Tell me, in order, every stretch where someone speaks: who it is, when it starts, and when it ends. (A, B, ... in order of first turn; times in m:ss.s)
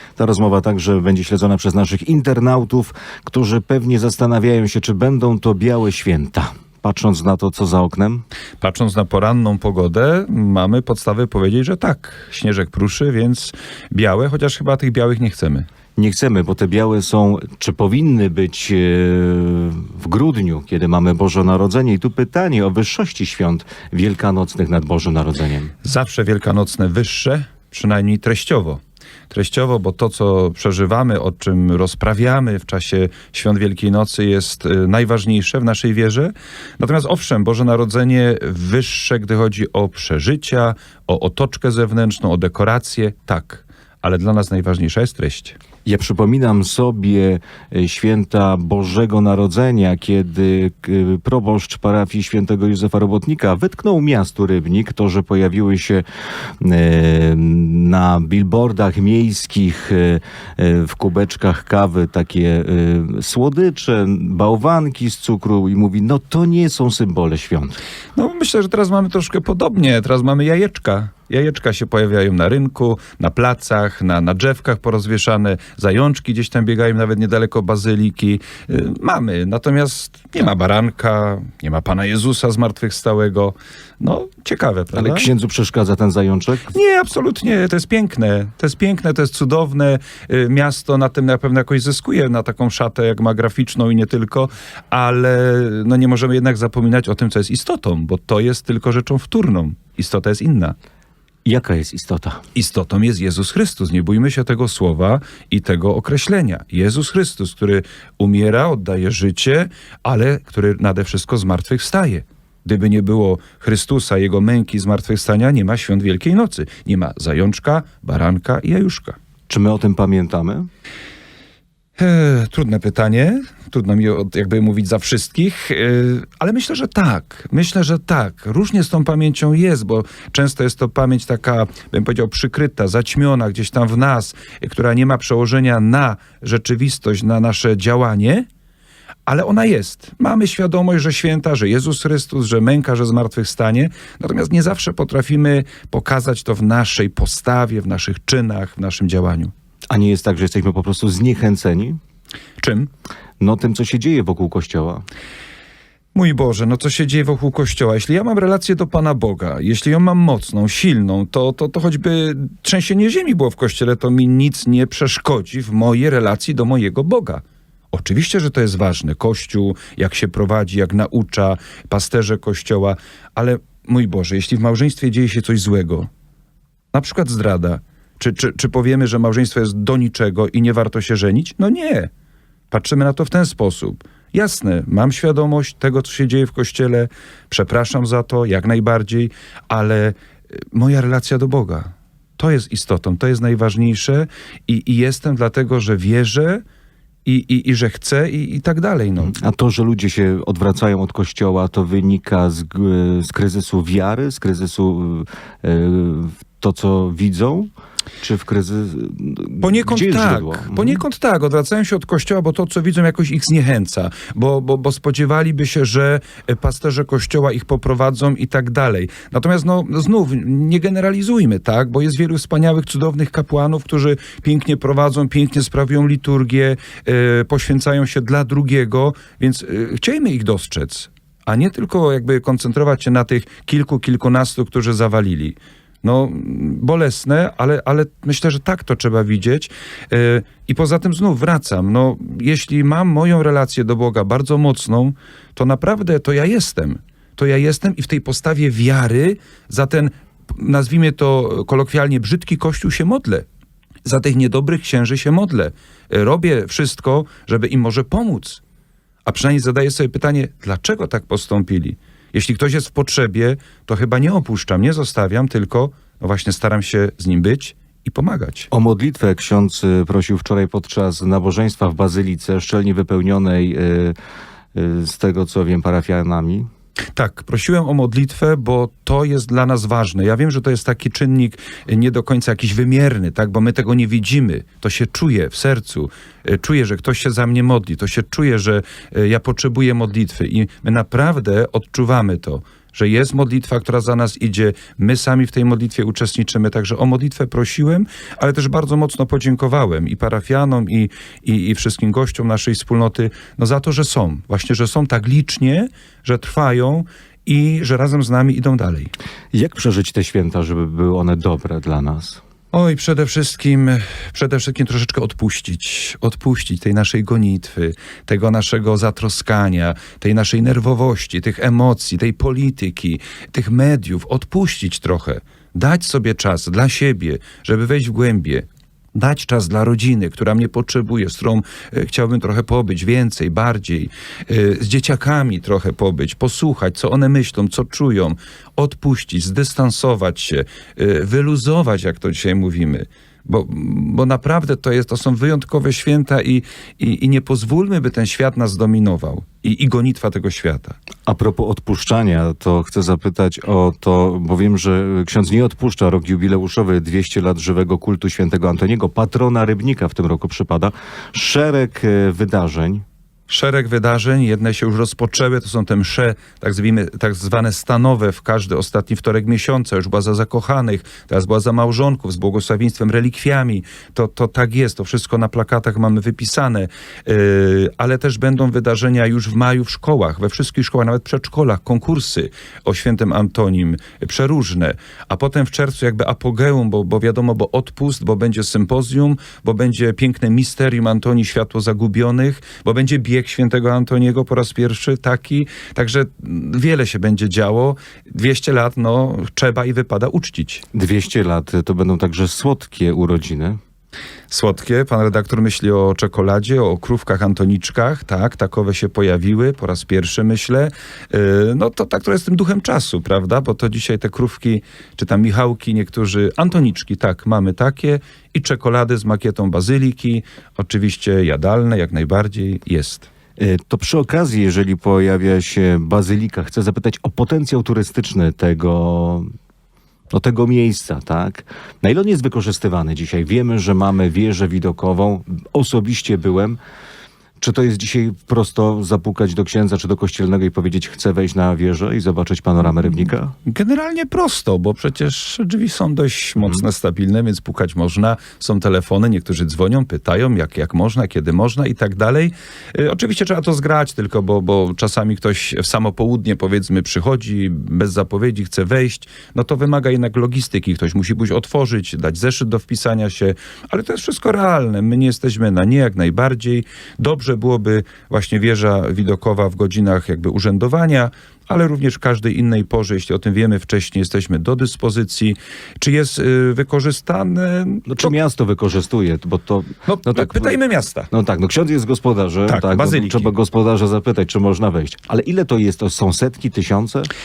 0:00.2-0:08.2 A
0:08.6-0:15.6 B
0:16.0-0:25.7 A
0:25.8-0:45.6 B
0:45.8-0:56.0 A
0:56.6-1:07.8 A
1:08.2-1:25.3 B
1:24.9-1:26.7 A
1:26.7-1:40.7 B
1:41.4-1:42.4 A
1:42.5-1:59.2 B
1:59.5-2:00.7 A
2:02.0-2:18.4 B
2:19.2-2:29.5 B
2:29.9-2:32.0 A
2:32.6-2:32.9 B
2:33.4-2:35.0 A
2:36.1-2:56.1 B
2:56.9-3:02.1 B
3:02.7-3:10.2 B
3:10.7-3:16.6 B
3:17.2-3:19.4 B
3:19.4-3:31.0 A
3:29.6-4:13.4 B
4:14.0-4:18.6 B
4:19.2-4:28.7 B
4:28.7-4:34.1 A
4:34.7-4:36.7 A
4:37.1-5:09.1 B
5:09.5-5:12.4 A
5:12.7-5:51.0 B
5:51.2-6:03.0 A
6:03.5-6:40.8 B
6:40.9-6:43.8 A
6:44.5-7:03.3 B
7:03.6-7:09.5 A
7:10.3-7:16.8 A
7:17.6-7:23.5 A
7:23.6-7:58.3 B
7:58.1-8:00.8 A
8:00.0-8:01.3 B
8:01.3-8:07.3 A
8:02.7-8:03.5 B